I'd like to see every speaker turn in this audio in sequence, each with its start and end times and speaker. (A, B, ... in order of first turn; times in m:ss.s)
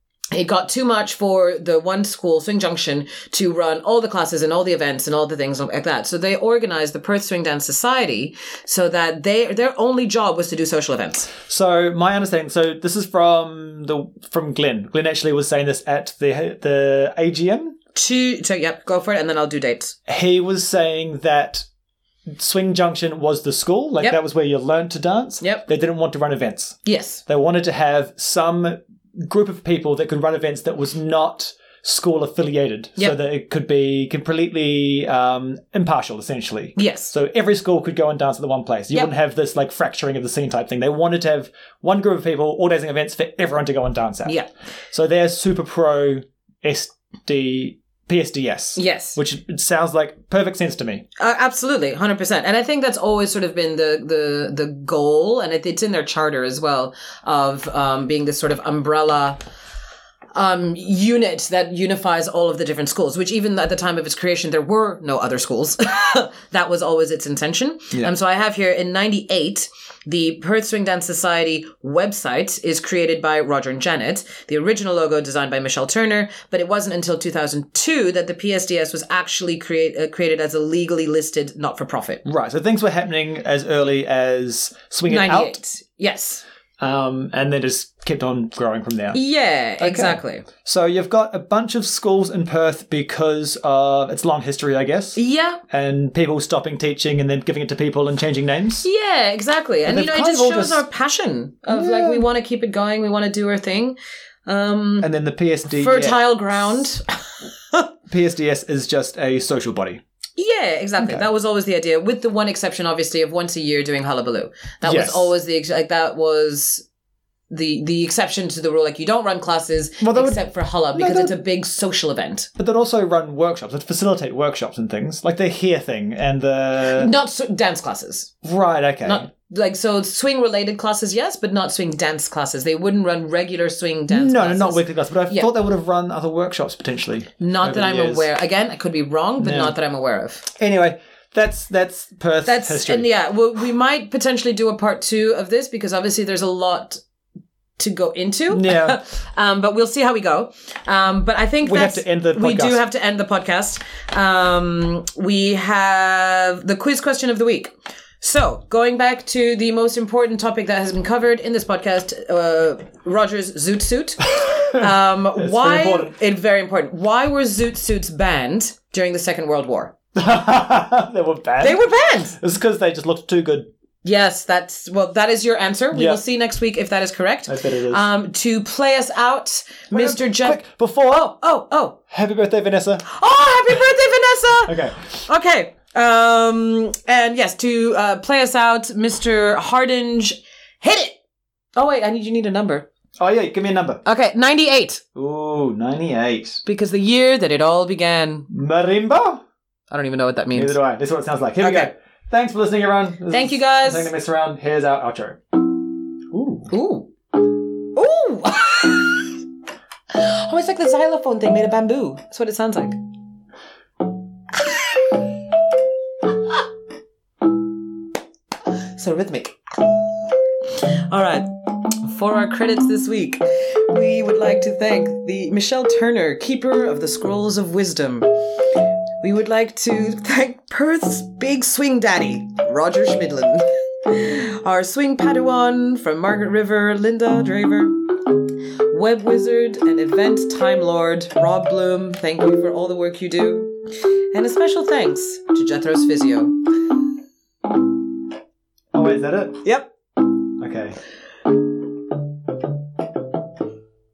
0:00.3-0:11.3 A
0:11.4-0:17.8 B
0:18.0-0:20.0 A
0:20.1-0:21.6 B
0:22.4-0:44.4 B
0:26.9-0:27.2 A
0:36.8-0:37.1 A
0:44.9-0:51.1 B
0:48.8-0:49.2 A
0:51.2-0:59.4 A
1:00.3-1:22.2 A
1:22.2-1:25.6 B
1:25.1-1:26.4 A
1:26.8-1:29.2 B
1:29.1-1:30.5 A
1:29.8-1:38.9 B
1:35.2-1:35.6 A
1:38.8-1:45.1 A
1:39.9-1:40.8 B
1:41.7-1:42.2 B
1:45.0-1:46.2 B
1:45.7-1:47.9 A
1:48.1-1:50.0 B
1:50.4-1:56.8 A
1:51.0-1:51.2 B
1:54.8-1:55.3 B
1:57.5-2:02.5 A
2:00.0-2:01.4 B
2:02.6-2:07.1 B
2:06.8-2:08.3 A
2:08.4-2:09.3 B
2:09.0-2:15.5 A
2:14.1-2:18.3 B
2:17.4-2:20.4 A
2:19.4-2:19.8 B
2:20.5-2:23.1 B
2:22.5-2:27.0 A
2:27.8-2:49.9 A
2:28.5-2:29.0 B
2:31.6-2:32.8 B
2:45.3-2:46.2 B
2:50.2-2:53.7 B
2:51.6-2:52.4 A
2:54.0-3:02.0 A
2:55.9-2:56.2 B
2:57.5-2:58.1 B
2:59.9-3:01.3 B
3:02.1-3:03.1 B
3:03.0-3:11.2 A
3:04.7-3:05.2 B
3:11.8-3:12.9 A
3:13.2-3:14.0 B
3:14.0-3:15.0 A
3:15.2-3:16.6 B
3:16.6-3:18.5 A
3:18.5-3:19.4 B
3:19.9-3:20.8 A
3:20.5-3:25.4 B
3:21.6-3:21.9 A
3:23.3-3:24.1 A
3:26.3-3:26.7 B
3:26.7-3:29.4 A
3:30.1-3:33.0 A
3:34.7-3:35.1 A
3:38.7-4:07.0 A
4:08.9-4:09.6 B
4:09.6-4:09.9 A
4:10.6-4:11.0 B